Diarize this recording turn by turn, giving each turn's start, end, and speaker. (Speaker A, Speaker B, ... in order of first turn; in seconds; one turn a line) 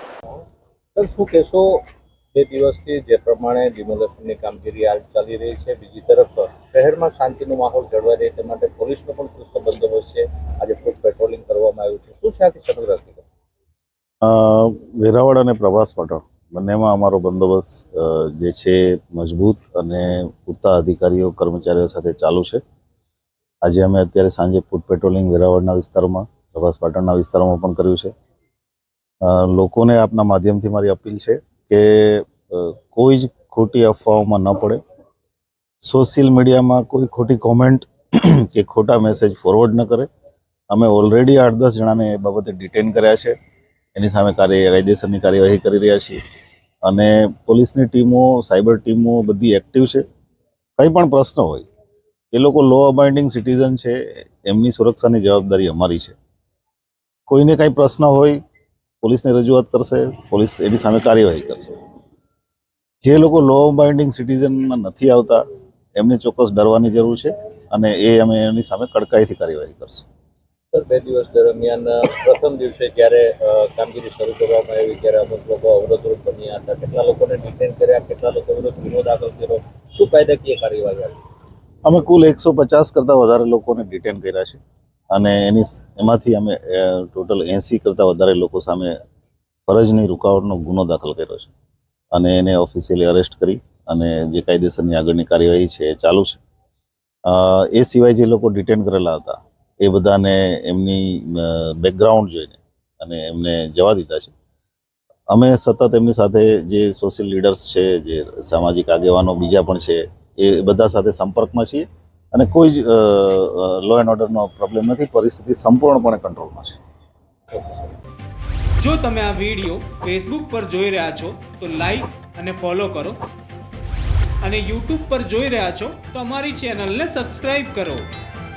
Speaker A: 0.9-1.8
Speaker A: 2.3-13.3
Speaker B: 14.2-22.6
Speaker B: 23.6-28.1
Speaker B: 29.2-34.8
Speaker B: 35.8-40.1
Speaker B: 40.7-43.4
Speaker B: 44.0-46.2
Speaker B: 46.9-50.0
Speaker B: 50.8-51.7
Speaker B: 52.3-56.2
Speaker B: 57.3-58.4
Speaker B: 59.0-61.8
Speaker B: 63.0-65.4
Speaker B: 66.0-70.0
Speaker A: 70.7-81.2
Speaker B: 81.8-84.6
Speaker B: 85.1-89.0
Speaker B: 89.7-91.5
Speaker B: 92.1-96.4
Speaker B: 97.3-104.3
Speaker B: 105.3-116.8
Speaker A: 117.5-117.9
Speaker C: 118.8-123.2
Speaker C: 124.4-128.1